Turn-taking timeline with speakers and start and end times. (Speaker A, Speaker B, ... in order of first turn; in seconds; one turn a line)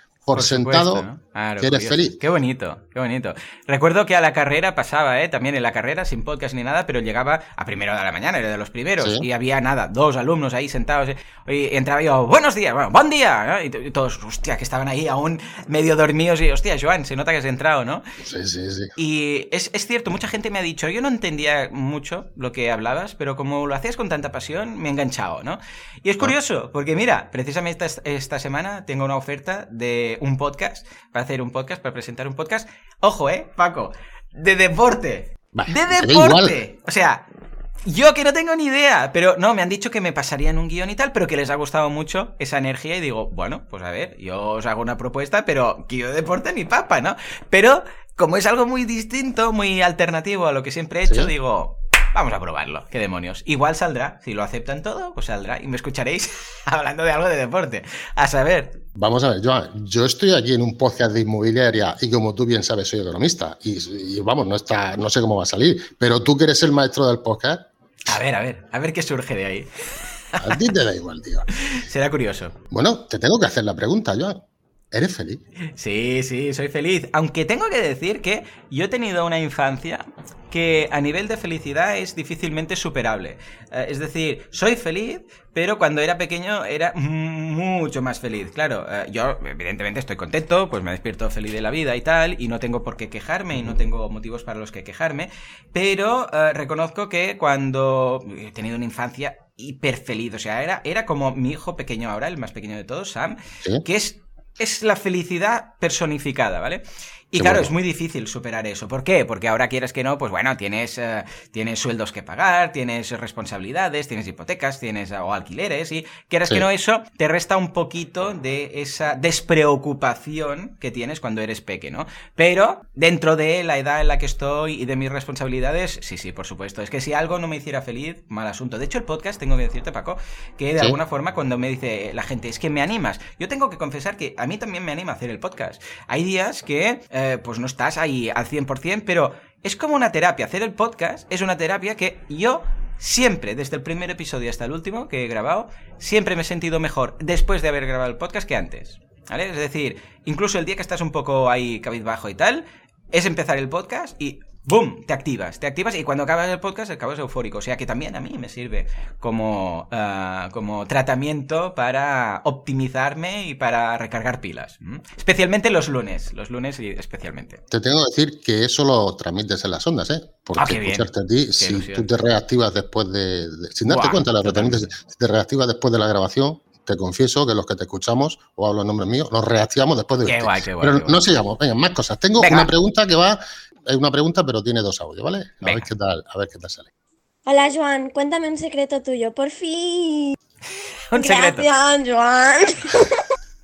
Speaker A: 0.3-1.1
Speaker B: 0.3-18.0
Speaker A: 1.6-2.2
Speaker A: 9.0-9.3
Speaker A: 18.2-18.9
Speaker B: 19.0-37.2
Speaker A: 35.5-36.6
Speaker B: 37.8-58.8
Speaker A: 51.1-51.3
Speaker A: 59.0-67.7
Speaker B: 68.1-69.7
Speaker B: 70.3-70.7
Speaker A: 70.4-71.5
Speaker B: 71.6-72.6
Speaker A: 72.7-75.4
Speaker B: 75.7-167.6
Speaker A: 107.4-107.7
Speaker A: 167.7-186.9
Speaker B: 170.6-172.1
Speaker B: 173.9-174.9
Speaker B: 180.2-181.2
Speaker B: 182.4-182.7
Speaker B: 185.6-185.9
Speaker C: 187.5-190.3
Speaker B: 191.1-191.7
Speaker C: 191.1-193.1